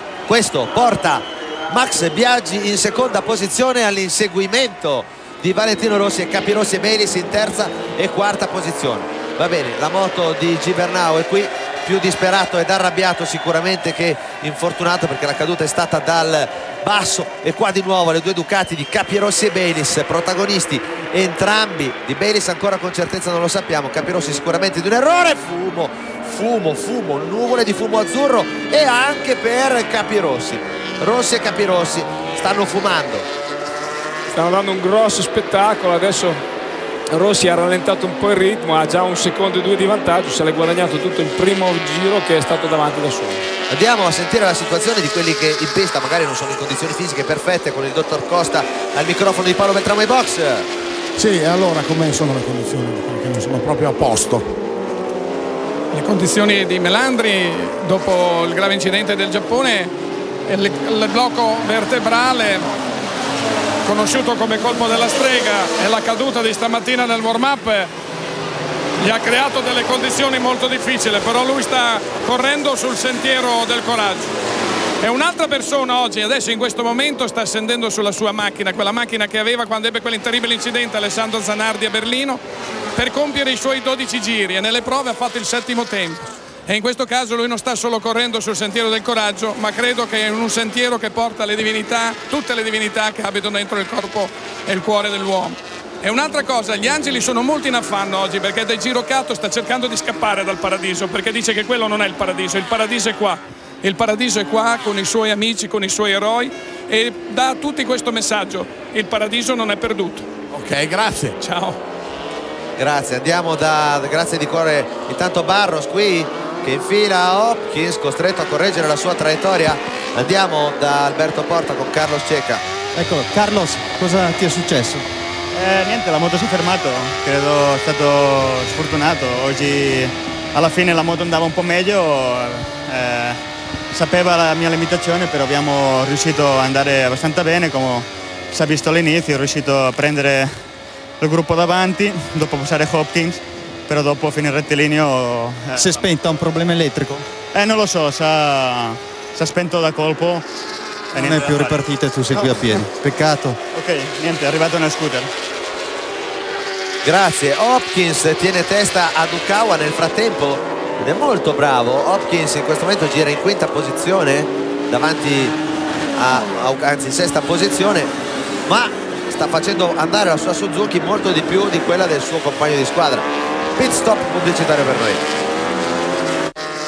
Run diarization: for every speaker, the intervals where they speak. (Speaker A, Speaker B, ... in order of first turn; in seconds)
Speaker A: 0.3-33.3, 43.7-50.7, 112.8-122.6, 157.0-165.6, 166.2-168.1, 168.7-173.3, 173.8-175.2
Speaker B: 34.3-36.4, 37.1-43.5
Speaker C: 51.2-54.5, 110.5-111.4
Speaker D: 55.9-59.9, 60.5-62.8, 63.8-67.9, 69.0-74.3, 75.0-82.4, 83.0-110.3, 111.4-111.8
Speaker E: 122.9-125.1, 145.8-147.3, 151.2-153.6
Speaker F: 125.5-133.4, 133.9-140.5, 141.2-146.0, 147.5-150.5, 151.1-152.9, 153.6-155.3